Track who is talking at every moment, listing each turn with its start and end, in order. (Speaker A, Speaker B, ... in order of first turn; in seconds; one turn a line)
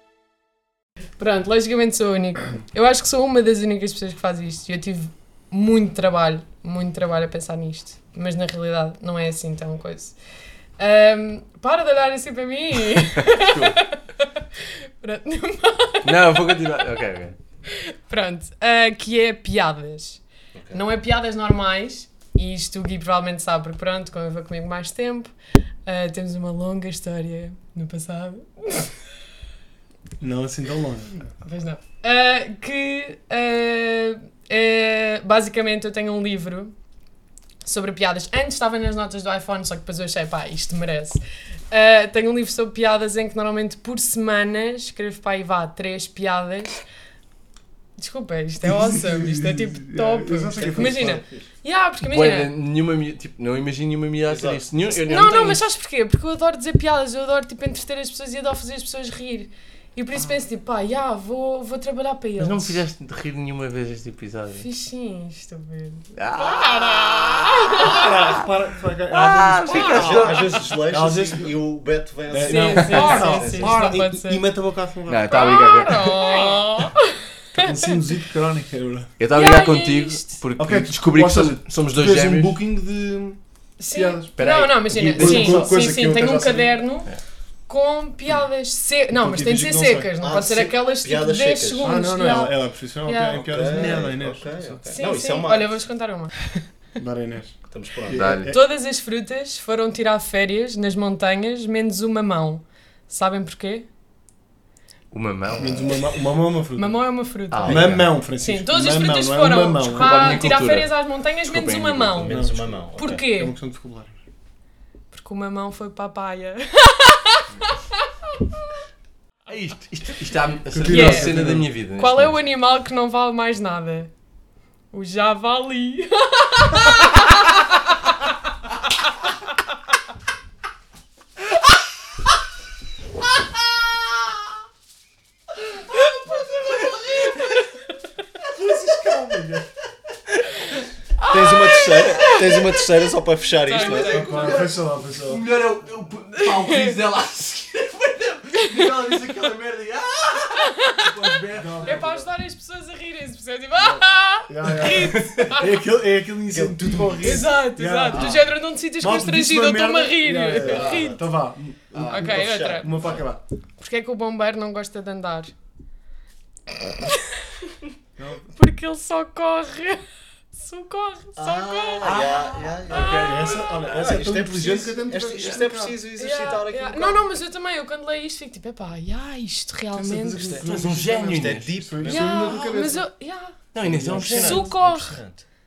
Speaker A: 1.2-10.1
Speaker A: 10.8-16.7
Speaker B: 13.2-13.8
Speaker B: 16.0-17.4
Speaker A: 17.7-25.3
Speaker C: 20.5-20.8
Speaker A: 25.9-28.9
Speaker D: 30.2-31.3
Speaker A: 31.4-36.7
Speaker A: 37.6-41.2
Speaker A: 41.7-46.8
Speaker A: 48.0-52.5
Speaker D: 48.6-51.2
Speaker C: 50.5-51.5
Speaker B: 52.0-55.6
Speaker C: 54.3-54.6
Speaker A: 55.0-62.8
Speaker B: 62.4-64.7
Speaker A: 64.6-68.1
Speaker B: 66.2-68.4
Speaker D: 67.8-71.5
Speaker B: 69.1-70.6
Speaker C: 69.8-73.9
Speaker D: 72.3-75.4
Speaker A: 72.4-74.4
Speaker B: 75.1-76.5
Speaker A: 75.3-78.0
Speaker D: 77.6-79.1
Speaker B: 79.2-82.6
Speaker A: 79.3-80.4
Speaker D: 80.6-84.3
Speaker A: 83.8-87.1
Speaker B: 84.3-85.9
Speaker D: 84.9-86.8
Speaker A: 87.7-94.0
Speaker D: 89.1-90.1
Speaker C: 90.2-92.0
Speaker D: 91.8-94.8
Speaker C: 93.3-95.7
Speaker A: 94.9-96.6
Speaker D: 97.0-98.6
Speaker C: 97.7-98.3
Speaker B: 98.1-98.5
Speaker A: 98.5-103.8
Speaker B: 105.1-106.0
Speaker D: 105.6-107.0
Speaker A: 106.7-112.4
Speaker B: 107.5-108.0
Speaker D: 107.7-110.5
Speaker C: 107.7-108.0
Speaker B: 109.9-112.3
Speaker C: 112.2-113.2
Speaker D: 112.3-114.2
Speaker A: 113.0-113.5
Speaker A: 115.1-118.6
Speaker B: 119.5-122.3
Speaker D: 120.7-121.7
Speaker A: 120.9-121.4
Speaker A: 122.0-124.1
Speaker A: 124.9-127.5
Speaker B: 136.3-137.4
Speaker D: 138.5-139.7
Speaker A: 141.2-142.8
Speaker C: 141.3-144.2
Speaker A: 143.6-144.5
Speaker B: 143.7-152.0
Speaker D: 144.0-145.4
Speaker A: 146.4-146.9
Speaker A: 150.6-155.7
Speaker D: 151.5-152.3
Speaker D: 153.9-158.4
Speaker B: 154.9-155.5
Speaker C: 156.5-157.4
Speaker A: 157.2-161.2
Speaker B: 158.1-158.4
Speaker D: 159.0-163.4
Speaker B: 160.5-161.1
Speaker B: 161.9-162.3
Speaker A: 162.1-163.1
Speaker C: 162.2-162.8
Speaker A: 163.8-165.5
Speaker A: 166.8-167.4
Speaker D: 168.2-168.5
Speaker A: 168.5-170.0
Speaker A: 170.5-173.7
Speaker C: 171.4-173.3
Speaker B: 172.0-174.2
Speaker D: 173.2-176.0
Speaker C: 173.9-177.3
Speaker B: 175.3-175.6
Speaker A: 176.2-180.6
Speaker D: 179.9-183.0
Speaker B: 180.6-181.7
Speaker C: 181.3-182.5
Speaker A: 182.0-183.6
Speaker B: 183.7-184.7
Speaker C: 183.9-185.4
Speaker A: 184.2-185.2